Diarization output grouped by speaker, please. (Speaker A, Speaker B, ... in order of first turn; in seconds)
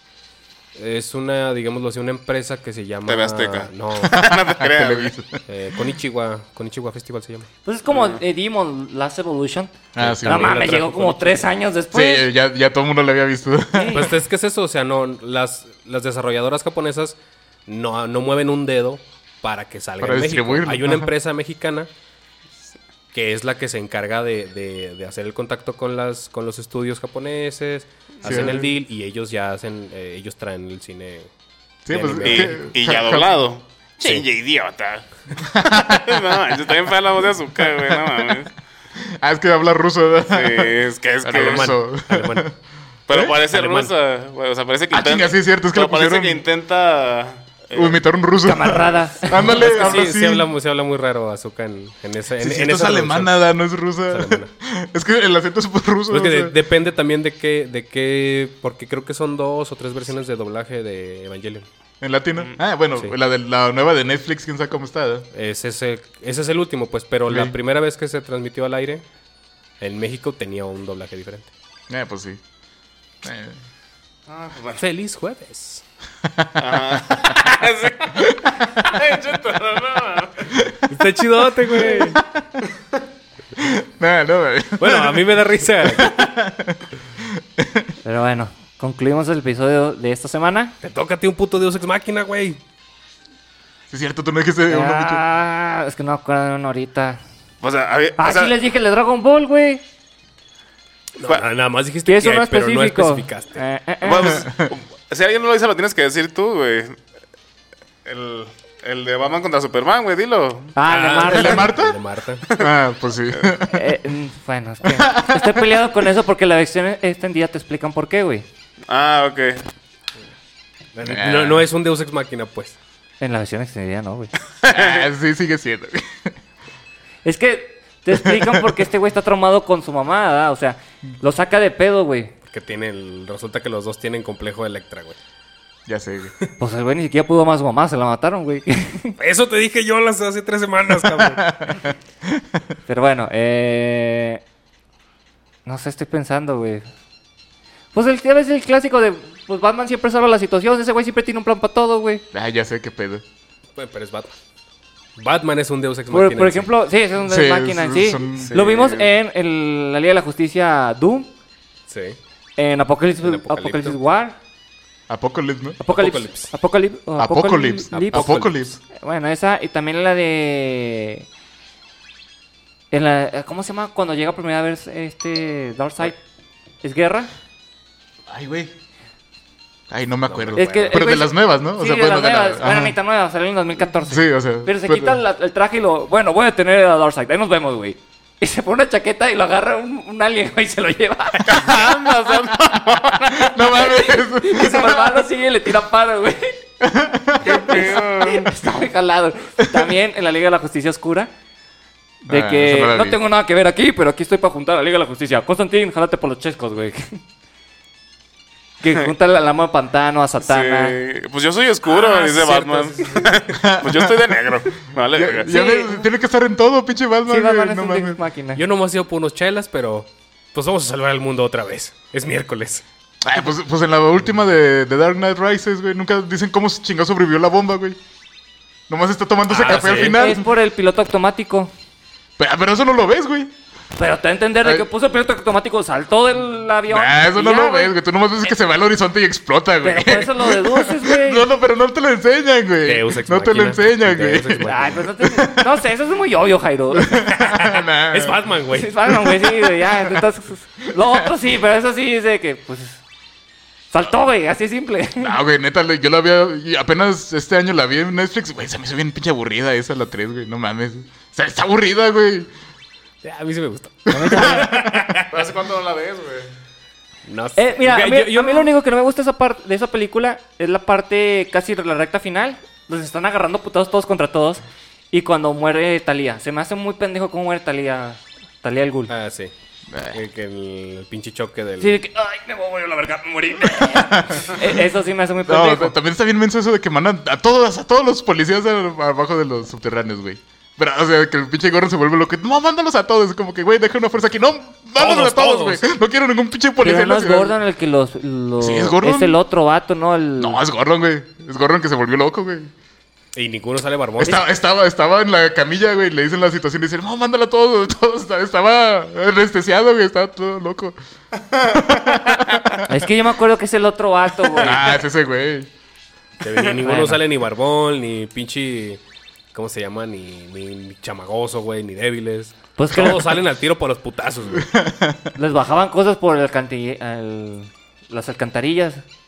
Speaker A: 0.8-4.2, 5.5-7.5, 10.0-11.4, 13.9-21.9, 23.1-31.3, 31.9-32.6, 41.3-42.5, 43.5-43.9, 49.3-53.4, 54.1-54.5, 56.1-61.6, 65.3-69.0, 69.8-71.5, 74.8-75.8, 80.9-82.2, 84.8-86.1, 90.8-92.6, 101.2-103.6, 110.9-112.4, 120.9-122.8, 132.4-135.2, 139.2-141.4, 153.8-154.4, 155.2-156.7, 161.9-162.2, 163.2-164.0, 165.9-166.5, 167.9-168.6, 180.2-181.1, 211.8-213.6, 218.5-222.8, 229.5-230.2, 242.8-245.1, 247.3-248.9, 263.2-265.3, 267.2-268.7, 279.1-279.5, 280.1-282.0, 294.9-295.8, 303.3-304.4, 316.4-319.0, 319.5-324.7
Speaker B: 3.1-5.1, 7.9-8.2, 28.2-28.6, 32.2-35.0, 35.8-38.5, 40.3-41.7, 43.1-48.0, 74.3-74.8, 76.6-80.6, 97.6-98.5, 104.0-107.0, 108.0-110.7, 118.9-119.6, 124.6-125.0, 158.4-159.1, 191.5-193.5, 197.5-198.5, 210.4-215.5, 265.3-266.5, 311.9-312.8
Speaker C: 4.0-5.4, 9.9-10.7, 11.9-14.1, 20.0-21.1, 28.2-28.7, 31.9-33.3, 35.4-36.2, 37.6-38.3, 39.0-42.5, 43.1-43.4, 44.9-46.4, 47.7-50.5, 52.4-56.5, 62.0-65.3, 67.3-67.5, 71.9-72.4, 73.2-73.6, 76.2-77.0, 78.2-78.7, 80.5-80.8, 81.7-82.4, 83.6-87.9, 93.9-95.2, 104.2-104.7, 111.2-112.0, 112.5-113.8, 114.8-115.7, 121.0-121.6, 124.7-126.3, 128.1-128.7, 135.9-136.3, 140.9-142.4, 152.3-153.2, 157.2-158.6, 165.1-165.8, 167.2-168.8, 178.3-178.7, 179.9-182.9, 184.0-185.2, 191.4-191.9, 192.5-195.2, 196.8-197.9, 199.6-199.9, 202.2-203.2, 213.5-214.3, 215.1-218.2, 223.2-228.0, 228.9-230.5, 232.4-233.5, 236.9-245.6, 246.9-248.4, 249.1-250.2, 250.8-251.3, 255.2-262.5, 264.2-264.7, 279.9-280.2, 283.8-284.8, 285.4-297.5, 298.6-299.4, 300.4-302.7, 304.2-310.9, 311.5-313.1, 314.5-315.7, 324.6-325.3
Speaker D: 7.6-9.7, 10.2-12.3, 13.7-14.1, 48.4-49.7, 88.0-90.7, 94.7-97.2, 98.2-99.8, 102.1-104.3, 110.8-111.7, 113.7-118.4, 123.2-124.3, 127.2-132.3, 136.6-139.1, 142.9-144.4, 145.7-146.8, 147.9-152.2, 156.1-161.3, 162.6-164.3, 165.8-171.2, 172.9-176.2, 176.8-177.3, 180.6-191.7, 193.6-196.6, 197.4-201.3, 202.3-207.2, 208.8-210.9, 215.4-216.1, 217.3-218.6, 229.6-231.7, 233.9-237.9, 239.8-241.4, 244.7-247.3, 248.7-253.0, 253.9-255.3, 264.1-265.0, 267.6-279.1, 281.8-285.9, 296.8-300.6, 312.9-314.9, 316.8-317.2, 322.8-323.4, 325.4-329.0